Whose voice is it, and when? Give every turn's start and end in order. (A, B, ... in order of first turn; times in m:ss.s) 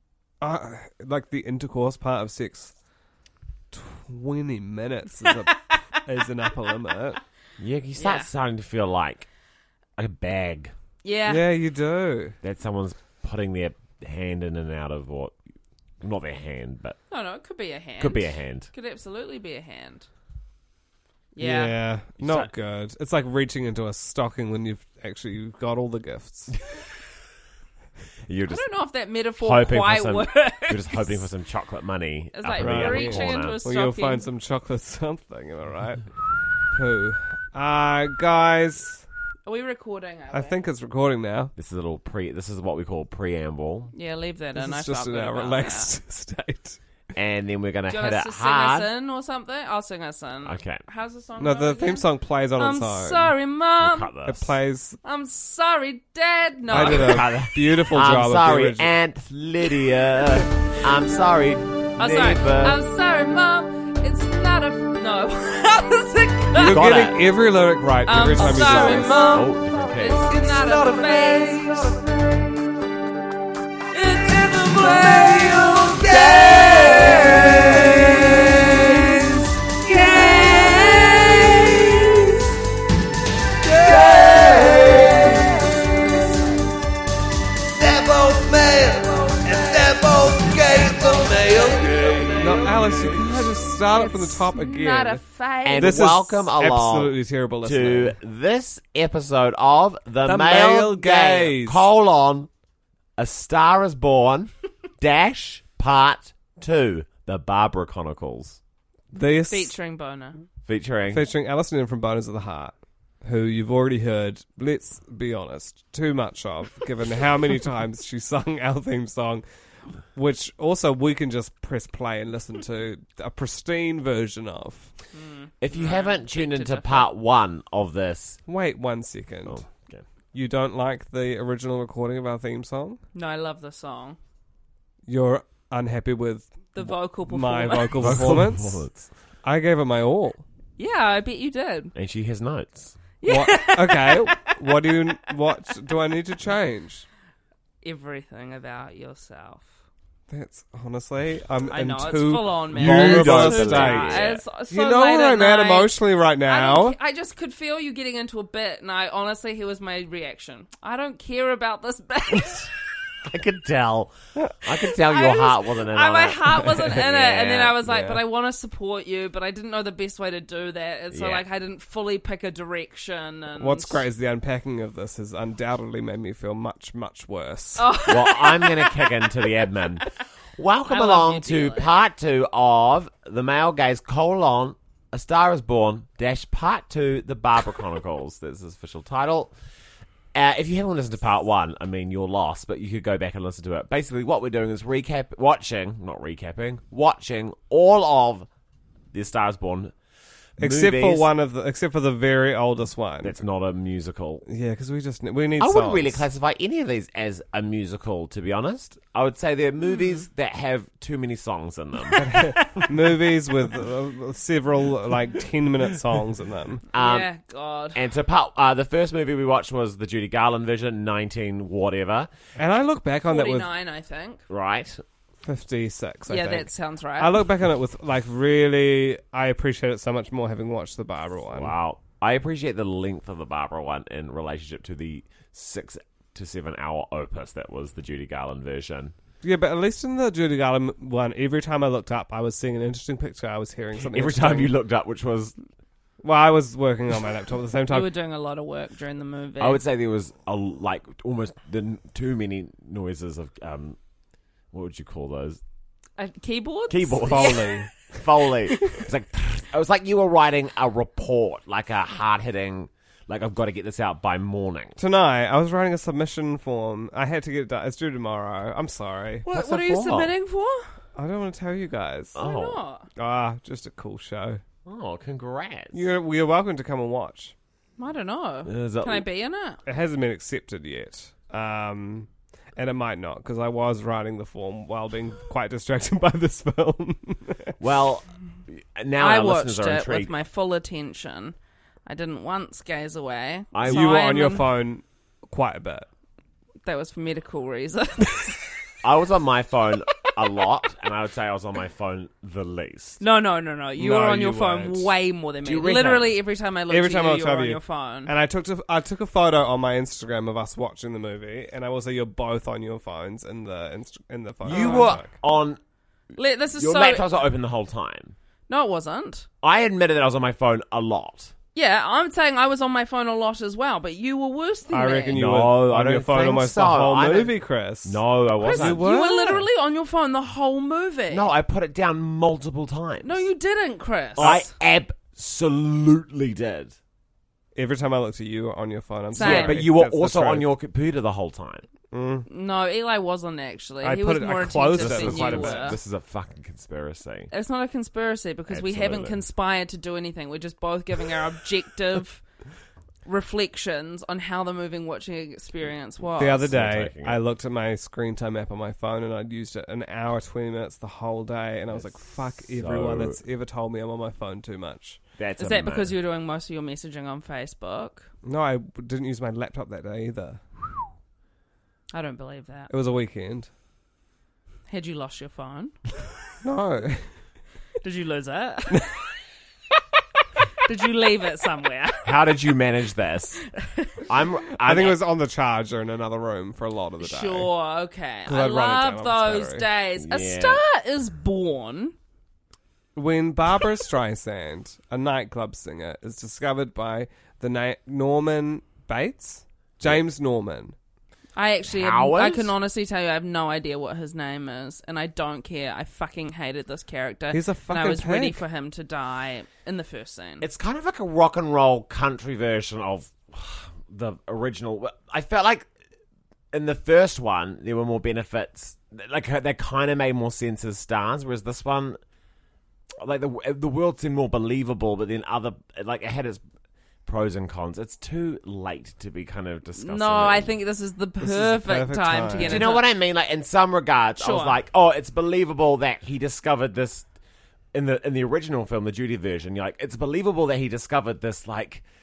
0:00.4-0:02.7 A
0:03.7-0:07.2 A
0:05.3-0:05.8 B
0:07.6-0:09.3 C
0:08.0-0:08.3 B
0:10.0-0:10.7 C
0:11.0-0:11.4 B
0:11.3-0:12.4 A
0:12.4-0:15.4 C
0:16.0-0:17.0 C
0:17.1-0:20.1 B
0:18.0-0:18.7 C
0:21.4-0:21.8 B
0:21.4-0:26.6 A
0:22.2-0:22.5 C
0:28.2-0:28.6 C
0:28.5-0:31.2 B
0:29.4-0:33.6 C
0:32.3-0:34.2 B
0:32.6-0:36.1 A
0:36.7-0:39.0 A
0:39.4-0:40.6 B
0:40.3-0:41.5 A
0:41.6-0:43.9 C
0:43.9-0:45.9 B
0:44.5-0:46.8 A
0:47.1-0:48.9 C
0:47.9-0:52.0 B
0:50.4-0:50.8 C
0:51.4-0:53.3 A
0:52.6-0:54.1 B
0:53.8-0:54.5 C
0:54.2-0:55.0 A
0:55.0-0:57.2 B
0:56.7-0:58.9 A
0:56.7-1:02.8 C
1:02.0-1:06.8 B
1:06.6-1:09.2 A
1:06.6-1:07.2 C
1:08.0-1:12.0 B
1:08.4-1:10.4 C
1:10.4-1:11.6 A
1:13.9-1:22.3 B
1:15.2-1:19.2 A
1:20.1-1:20.5 A
1:23.6-1:25.7 A
1:27.8-1:31.0 A
1:28.2-1:29.0 D
1:29.8-1:31.9 D
1:32.3-1:35.2 A
1:33.9-1:36.1 B
1:35.6-1:42.5 C
1:35.8-1:38.1 A
1:40.2-1:41.8 A
1:43.2-1:48.6 C
1:49.1-1:49.7 A
1:49.5-1:50.4 B
1:50.7-1:51.2 C
1:51.1-1:59.4 A
2:00.1-2:04.9 A
2:05.1-2:07.1 B
2:05.6-2:08.4 C
2:08.4-2:09.7 A
2:09.4-2:10.0 C
2:10.3-2:13.0 A
2:13.1-2:14.2 B
2:15.1-2:18.8 A
2:16.7-2:18.2 B
2:18.0-2:19.1 C
2:19.4-2:20.4 A
2:20.8-2:21.9 B
2:21.9-2:23.0 C
2:23.2-2:25.0 B
2:23.2-2:27.0 A
2:27.8-2:29.7 B
2:30.3-2:37.0 A
2:31.6-2:42.7 B
2:32.8-2:34.4 C
2:43.2-2:47.8 C
2:45.0-2:54.0 B
2:47.8-2:48.2 A
2:51.1-2:51.4 C
2:53.6-2:57.9 A
2:57.8-2:59.5 B
2:58.0-3:09.5 C
3:00.9-3:01.9 B
3:10.3-3:18.5 C
3:19.1-3:19.9 C
3:20.6-3:21.3 C
3:20.6-3:23.4 A
3:23.2-3:24.4 C
3:24.5-3:26.2 A
3:25.6-3:32.2 C
3:32.1-3:32.8 B
3:32.2-3:36.8 A
3:36.9-3:37.3 C
3:36.9-3:38.0 B
3:37.9-3:42.3 C
3:42.6-3:43.7 A
3:43.3-3:44.4 B
3:44.5-3:45.0 C
3:45.4-3:51.7 A
3:46.3-3:47.4 B
3:51.5-3:59.1 C
3:59.4-4:04.7 A
4:04.0-4:05.5 C
4:06.2-4:08.1 A
4:07.9-4:09.8 B
4:09.6-4:14.0 C
4:14.7-4:15.6 C
4:16.2-4:17.7 B
4:16.9-4:25.0 C
4:17.2-4:18.2 A
4:18.7-4:19.0 A
4:25.0-4:29.4 A
4:29.4-4:30.9 B
4:29.5-4:30.3 C
4:31.2-4:32.4 A
4:32.3-4:32.8 C
4:32.4-4:33.1 B
4:33.2-4:34.6 A
4:34.8-4:36.0 C
4:35.9-4:37.5 A
4:38.0-4:39.8 B
4:38.6-4:39.2 C
4:39.8-4:47.7 A
4:47.8-4:50.3 C
4:49.2-4:51.5 B
4:52.0-4:54.7 B
4:53.7-4:54.1 C
4:53.8-4:56.1 A
4:56.8-4:58.6 B
4:59.0-5:03.2 C
5:03.2-5:08.3 B
5:04.0-5:05.1 A
5:05.6-5:06.3 C
5:06.9-5:15.3 A
5:14.6-5:15.8 C
5:14.7-5:15.1 B
5:16.4-5:17.3 B
5:16.7-5:18.3 C
5:18.7-5:19.5 B
5:19.6-5:21.5 C
5:21.7-5:25.4 B
5:24.9-5:29.6 A
5:25.3-5:27.5 C
5:28.0-5:29.0 C
5:28.6-5:31.5 B
5:31.3-5:33.4 C
5:33.2-5:34.7 B
5:34.4-5:36.9 C
5:37.7-5:40.6 A
5:39.3-5:39.8 B
5:39.4-5:41.8 C
5:42.1-5:42.5 A
5:42.5-5:46.0 B
5:44.0-5:46.0 A
5:45.0-5:47.5 C
5:47.5-5:52.4 B
5:48.7-5:49.4 C
5:53.2-5:56.7 B
5:56.4-6:05.2 A
5:56.6-5:57.4 C
6:02.7-6:03.4 C
6:05.4-6:06.1 C
6:05.6-6:08.3 B
6:08.4-6:11.1 A
6:12.1-6:12.9 B
6:12.9-6:13.7 A
6:14.9-6:16.0 B
6:16.6-6:17.2 A
6:18.0-6:19.1 B
6:18.9-6:19.2 A
6:20.8-6:22.3 B
6:22.2-6:23.6 C
6:23.8-6:24.1 B
6:24.3-6:25.2 C
6:24.8-6:27.7 A
6:27.2-6:32.1 B
6:28.4-6:29.8 A
6:30.2-6:30.8 C
6:33.2-6:40.9 A
6:41.6-6:50.6 B
6:41.9-6:42.7 C
6:47.5-6:48.6 A
6:50.6-6:55.9 C
6:56.7-7:02.2 C
7:03.2-7:06.6 C
7:07.2-7:10.7 C
7:10.0-7:13.0 B
7:11.4-7:12.9 A
7:12.6-7:17.3 C
7:14.4-7:14.8 B
7:17.9-7:22.0 C